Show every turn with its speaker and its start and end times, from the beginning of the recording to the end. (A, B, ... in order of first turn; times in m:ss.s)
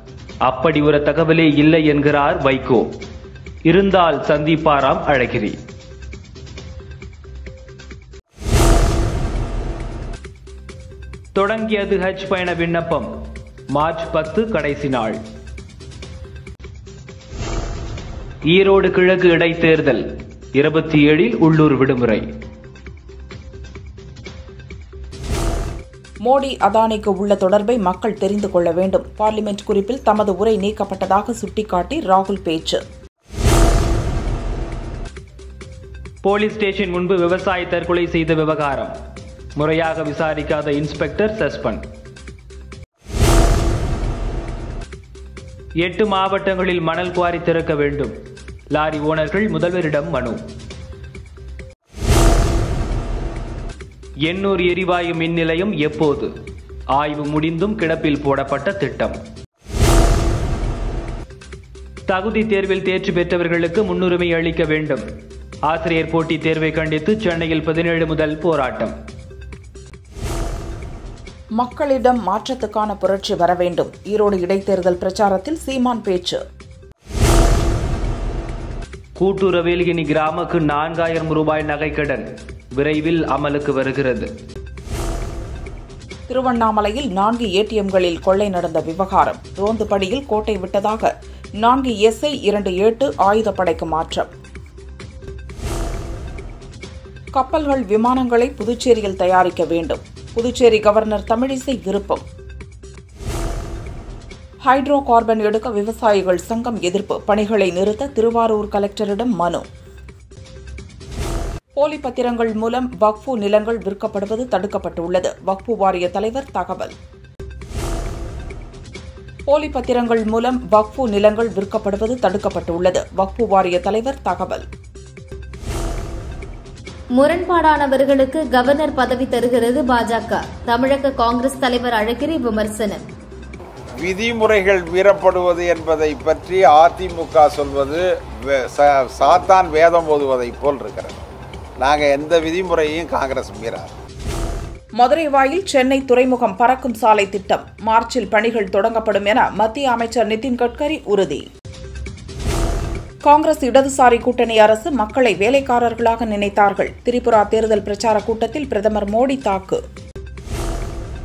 0:00.4-0:02.9 A
0:03.6-0:05.6 A
0:11.3-0:13.1 A
0:13.7-0:15.2 A
0:18.5-0:22.2 A
0:26.2-0:32.8 B
0:36.2-0:38.9 A
0:39.6-0:41.8 A
0:45.8-0:48.1 A
0:48.7-0:50.4 A
0:54.2-0:56.3 A
0:56.9-0:59.2 A
1:02.1-1:05.0 A
1:05.6-1:08.9 A
1:11.6-1:16.4 B
1:19.2-1:24.3 A
1:26.3-1:31.1 B
1:31.6-1:34.3 B
1:37.3-1:42.2 B
1:44.6-1:49.6 B
1:51.8-1:56.9 B
1:59.5-2:04.6 B
2:07.1-2:13.0 C
2:14.0-2:21.2 D
2:21.8-2:23.9 D
2:25.0-2:31.4 B
2:33.2-2:39.8 B